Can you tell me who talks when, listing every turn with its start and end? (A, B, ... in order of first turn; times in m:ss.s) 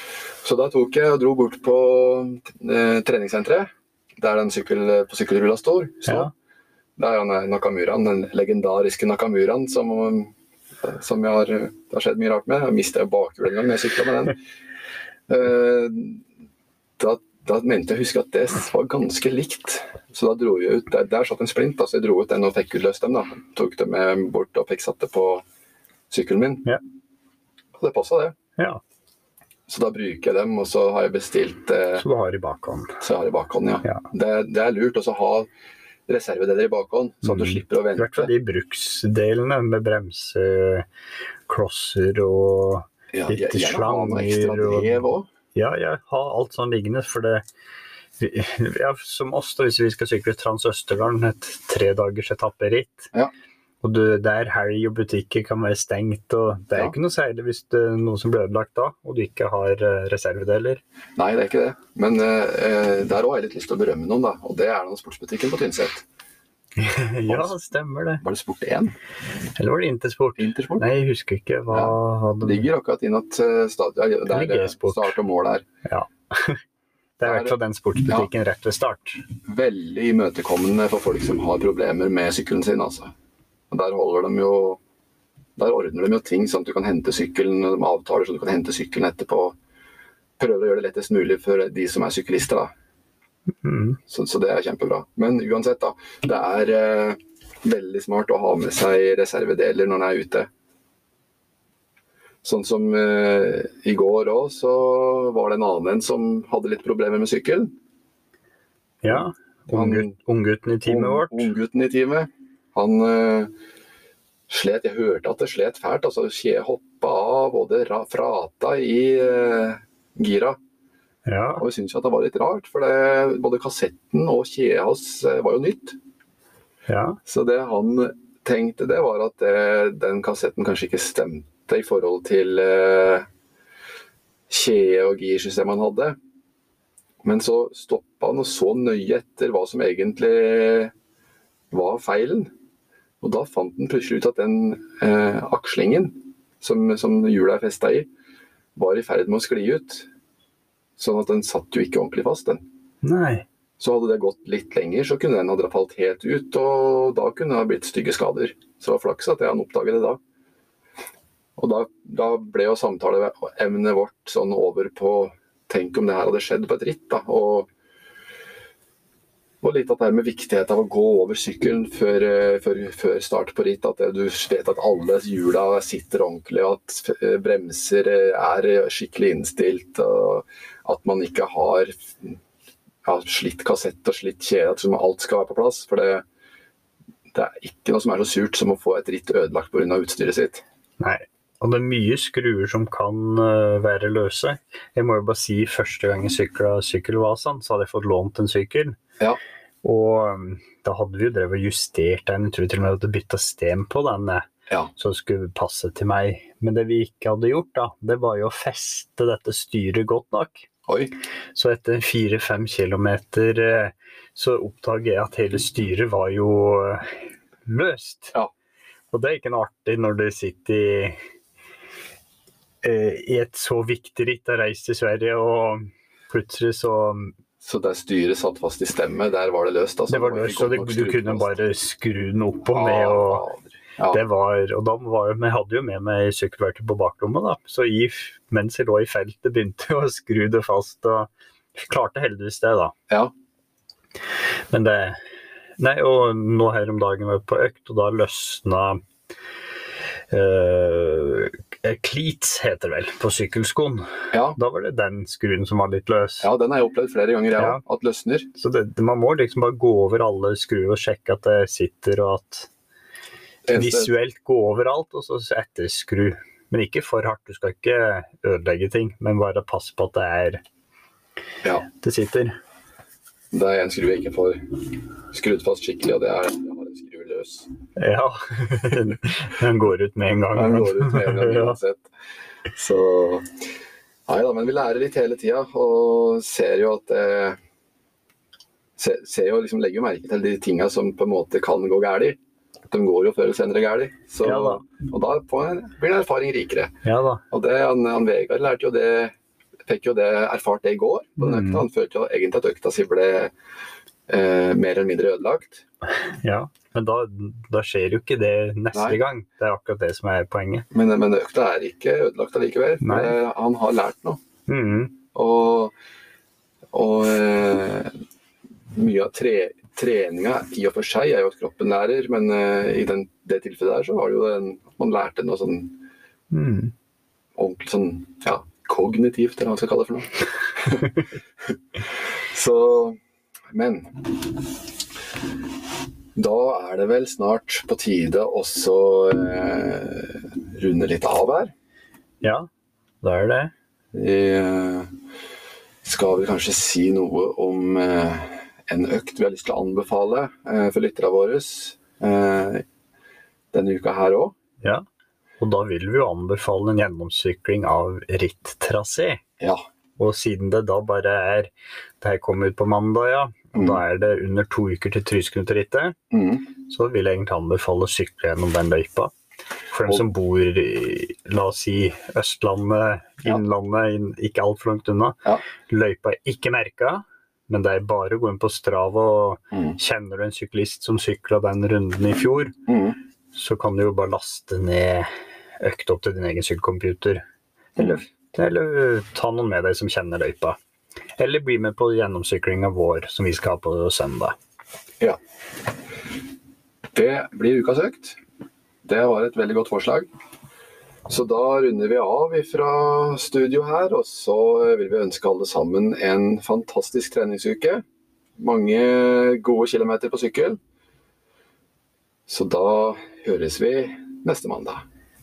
0:00.4-0:06.3 A
0:06.0-0:06.3 B
0:07.0-0:14.4 A
0:15.3-0:16.2 A
0:17.0-0:25.4 A
0:26.1-0:26.6 A
0:27.8-0:28.3 A
0:29.7-0:32.0 A
0:32.0-0:33.0 B
0:33.0-0:35.5 A
0:36.1-0:38.3 A
0:37.2-0:40.9 B
0:41.5-0:45.0 B
0:43.1-0:45.3 A
0:45.5-0:47.4 B
0:48.2-0:53.1 B
0:53.8-1:00.8 B
1:01.2-1:06.0 A
1:06.8-1:08.2 B
1:08.2-1:08.9 A
1:09.6-1:12.7 B
1:10.4-1:10.8 A
1:11.7-1:15.6 A
1:14.3-1:15.1 B
1:15.8-1:16.6 B
1:17.2-1:19.2 B
1:17.2-1:17.5 A
1:19.4-1:23.1 A
1:23.7-1:24.8 A
1:25.6-1:29.5 A
1:30.4-1:32.7 A
1:33.6-1:34.0 B
1:34.1-1:40.5 A
1:42.4-1:47.7 A
1:49.0-1:51.5 B
1:49.7-1:50.1 A
1:50.8-1:53.5 A
1:54.5-2:00.6 A
2:01.3-2:01.6 B
2:01.6-2:06.0 A
2:06.9-2:07.2 B
2:07.3-2:13.3 A
2:14.5-2:16.2 A
2:17.2-2:20.9 A
2:21.7-2:22.5 A
2:23.2-2:28.1 A
2:28.8-2:30.1 A
2:31.0-2:32.6 A
2:33.0-2:33.4 B
2:33.8-2:40.2 A
2:41.6-2:47.7 A
2:49.6-3:02.4 A
3:03.0-3:06.2 A
3:07.3-3:10.6 A
3:11.0-3:19.0 B
3:19.8-3:30.7 B
3:30.9-3:31.1 A
3:31.5-3:38.3 B
3:39.1-3:41.2 B
3:42.8-3:47.3 B
3:47.6-3:51.5 A
3:50.1-3:53.4 B
3:52.7-3:54.2 A
3:54.1-4:02.9 B
4:04.7-4:05.2 B
4:05.8-4:09.0 B
4:10.3-4:16.5 B
4:14.3-4:14.6 A
4:16.4-4:18.5 A
4:18.6-4:22.7 B
4:23.6-4:24.1 A
4:23.7-4:30.6 B
4:31.8-4:32.5 B
4:33.5-4:37.7 A
4:38.0-4:41.8 B
4:40.5-4:42.0 A
4:42.7-4:43.5 A
4:44.3-4:47.6 A
4:49.0-4:52.4 A
4:52.9-4:56.9 A
4:54.4-4:54.8 B
4:57.0-4:57.4 B
4:57.5-4:59.3 A
4:59.9-5:03.5 A
5:01.4-5:01.8 B
5:04.3-5:05.8 A
5:06.2-5:10.8 B
5:10.9-5:14.4 A
5:13.0-5:13.4 B
5:14.7-5:15.2 B
5:15.3-5:15.9 A
5:16.9-5:18.1 A
5:18.9-5:26.0 A
5:26.5-5:26.9 B
5:27.6-5:31.1 A
5:32.0-5:33.2 A
5:33.7-5:34.6 A
5:36.4-5:41.7 A
5:42.4-5:42.7 B
5:43.2-5:43.7 B
5:44.1-5:45.1 A
5:46.0-5:52.8 A
5:53.7-5:54.6 A
5:55.6-5:59.4 B
6:00.2-6:06.2 B
6:03.7-6:04.0 A
6:06.3-6:06.6 A
6:06.8-6:09.3 B
6:09.9-6:22.7 B
6:19.7-6:20.0 A
6:22.9-6:23.2 A
6:23.5-6:25.3 B
6:25.8-6:27.4 B
6:28.0-6:30.8 B
6:31.4-6:34.6 B
6:37.1-6:38.4 A
6:39.0-6:40.3 A
6:41.3-6:48.0 A
6:48.6-6:50.8 A
6:52.5-6:55.0 A